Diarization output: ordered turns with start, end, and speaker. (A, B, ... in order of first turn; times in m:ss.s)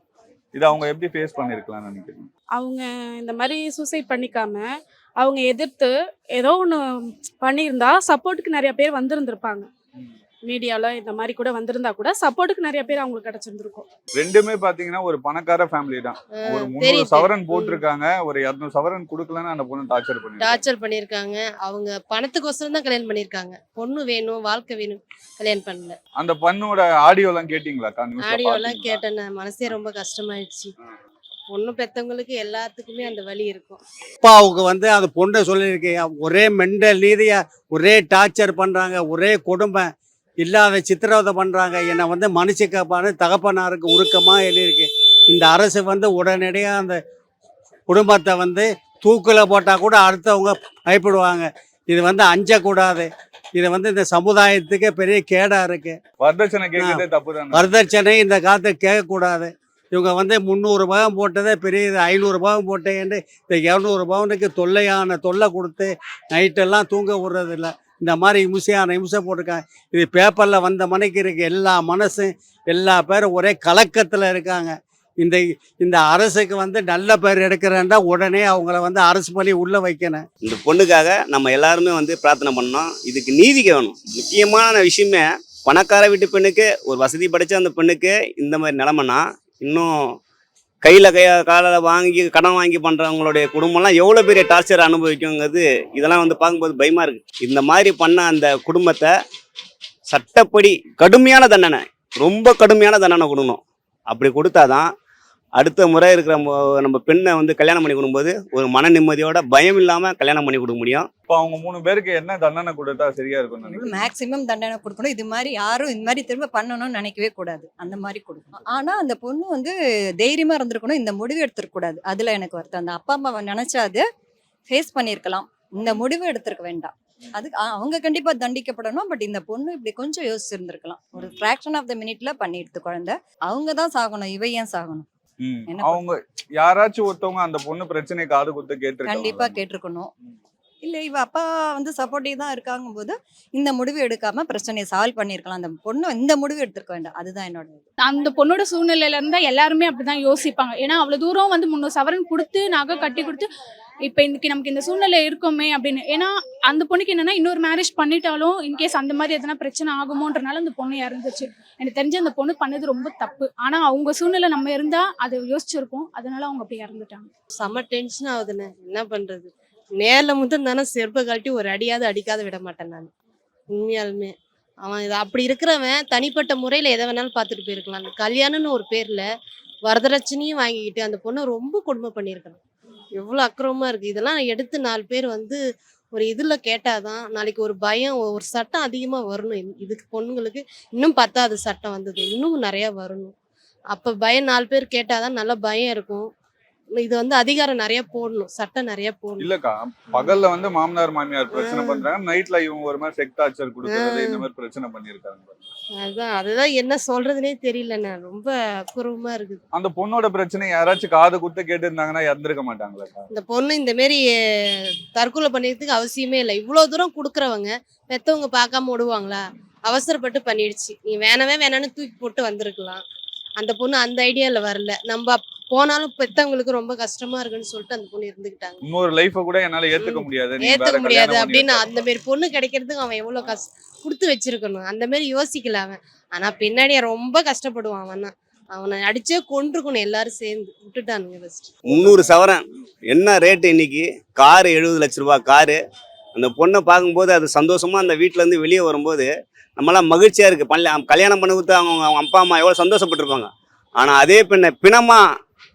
0:00.5-0:02.3 A
0:02.6-0:09.7 B
0:10.5-0:13.9 B
0:14.2-0:20.6 A
0:16.4-0:17.8 C
0:20.4-0:26.0 C
0:26.2-0:29.0 A
0:28.2-0:30.7 C
0:31.5-0:33.8 C
0:34.2-0:39.9 D
0:40.4-0:47.0 D
0:47.9-0:56.0 D
0:56.2-0:57.8 A
0:56.8-1:20.2 D
1:20.4-1:29.9 E
1:30.8-1:39.1 E
1:40.1-1:44.9 E
1:45.6-1:51.1 E
1:51.3-1:54.0 A
1:53.7-2:04.0 F
2:04.7-2:15.1 F
2:15.4-2:19.6 A
2:15.7-2:16.0 F
2:19.1-2:20.1 F
2:20.8-2:27.8 F
2:28.0-2:33.5 G
2:34.0-2:47.3 G
2:47.6-2:53.1 C
2:53.7-2:59.3 C
2:59.9-3:02.6 C
3:03.2-3:05.6 C
3:06.1-3:13.3 C
3:13.9-3:16.3 C
3:17.0-3:19.5 C
3:19.4-3:25.6 A
3:21.5-3:22.1 C
3:23.9-3:24.4 C
3:26.0-3:29.6 C
3:29.7-3:33.3 A
3:33.3-3:34.3 C
3:35.2-3:43.0 C
3:43.6-3:48.8 C
3:48.8-3:51.9 A
3:50.0-4:02.2 C
4:01.9-4:05.8 E
4:06.4-4:15.2 E